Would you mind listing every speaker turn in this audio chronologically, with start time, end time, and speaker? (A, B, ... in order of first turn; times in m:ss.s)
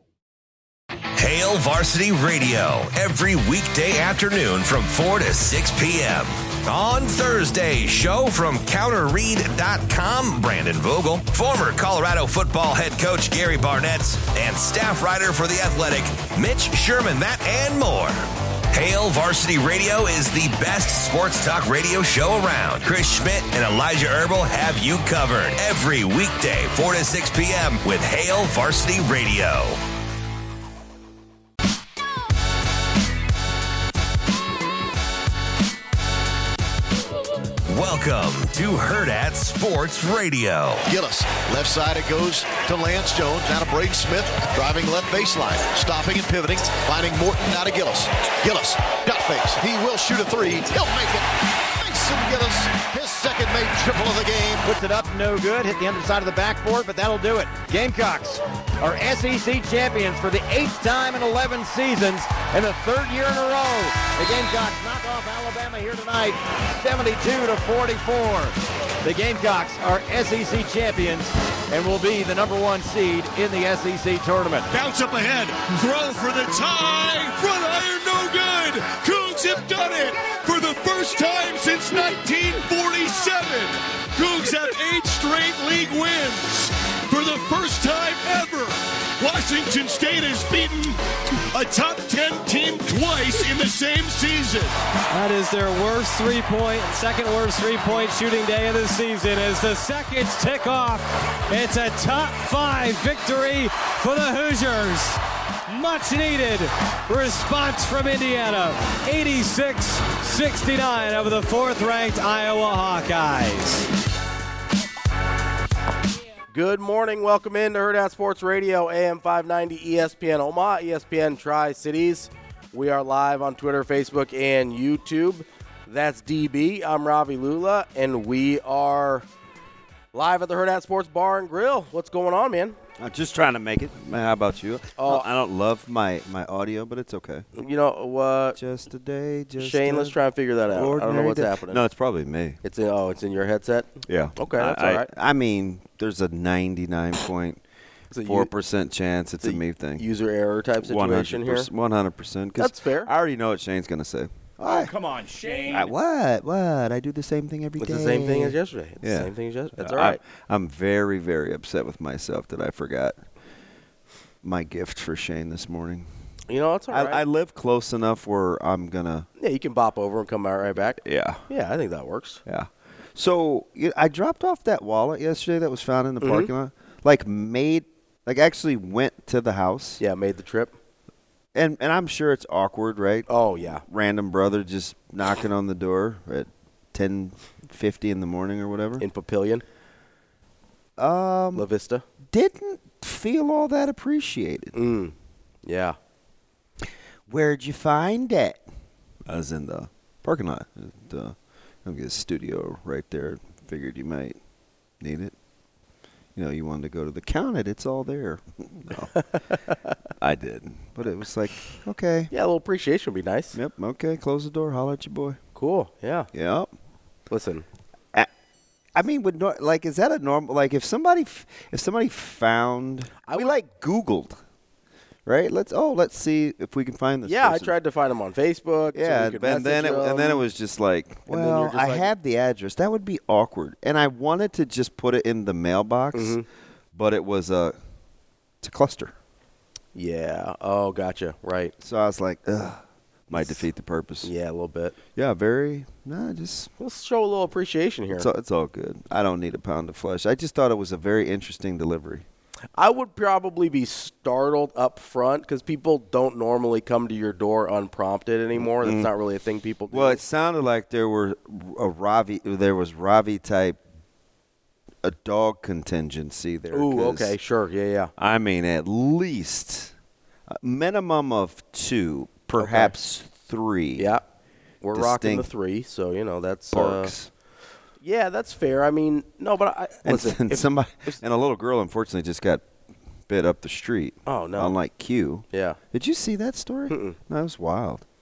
0:01.2-0:29.8 A
0:37.7-0:40.8 A
0:40.9-0:54.7 B
0:54.6-1:14.7 C
1:14.7-1:34.7 D
1:35.1-1:53.9 E
1:56.5-2:09.3 F
2:10.1-2:12.8 F
2:13.0-2:17.5 G
2:15.0-2:15.3 F
2:17.6-2:18.6 F
2:18.6-2:20.2 G
2:19.6-2:21.8 F
2:20.7-2:22.6 G
2:22.6-2:25.1 F
2:24.1-2:27.6 G
2:28.1-2:28.5 F
2:28.2-2:30.1 G
2:29.4-2:31.7 F
2:30.8-2:35.0 G
2:32.6-2:33.1 F
2:35.7-2:43.2 G
2:37.8-2:40.2 F
2:44.4-2:46.1 G
2:46.5-2:47.2 F
2:46.9-2:49.3 G
2:49.4-2:52.4 F
2:51.0-2:51.4 G
2:52.5-3:00.0 G
2:56.2-2:56.5 F
3:00.0-3:00.8 F
3:01.5-3:09.0 G
3:03.3-3:03.8 F
3:09.0-3:09.6 F
3:11.0-3:11.7 G
3:11.6-3:12.0 F
3:12.3-3:14.8 G
3:14.8-3:15.1 F
3:15.6-3:16.0 F
3:17.3-3:18.6 G
3:19.3-3:24.4 G
3:25.0-3:25.3 G
3:26.4-3:29.2 G
3:30.2-3:32.3 G
3:32.3-3:33.6 F
3:33.5-3:35.4 G
3:35.6-3:36.3 F
3:36.3-3:36.7 G
3:37.3-3:37.7 F
3:39.0-3:44.4 G
3:43.3-3:43.6 F
3:45.3-3:47.7 G
3:47.2-3:50.4 F
3:48.9-3:56.4 G
3:51.3-3:52.1 F
3:56.1-3:56.4 F
3:56.9-3:57.8 G
3:58.6-3:59.1 G
3:59.9-4:01.7 F
4:01.8-4:04.3 G
4:03.3-4:03.6 F
4:04.2-4:04.9 F
4:05.2-4:06.7 G
4:06.8-4:08.3 F
4:08.1-4:12.2 G
4:12.8-4:20.2 F
4:18.6-4:19.1 G
4:19.9-4:23.8 G
4:25.0-4:27.4 G
4:26.7-4:28.1 F
4:28.2-4:29.9 G
4:30.5-4:34.1 G
4:32.6-4:32.9 F
4:34.0-4:34.2 F
4:34.8-4:37.1 F
4:34.9-4:35.5 G
4:36.7-4:37.3 G
4:38.0-4:41.2 F
4:40.0-4:42.6 G
4:43.3-4:48.0 G
4:44.2-4:44.8 F
4:45.5-4:45.8 F
4:46.9-4:47.2 F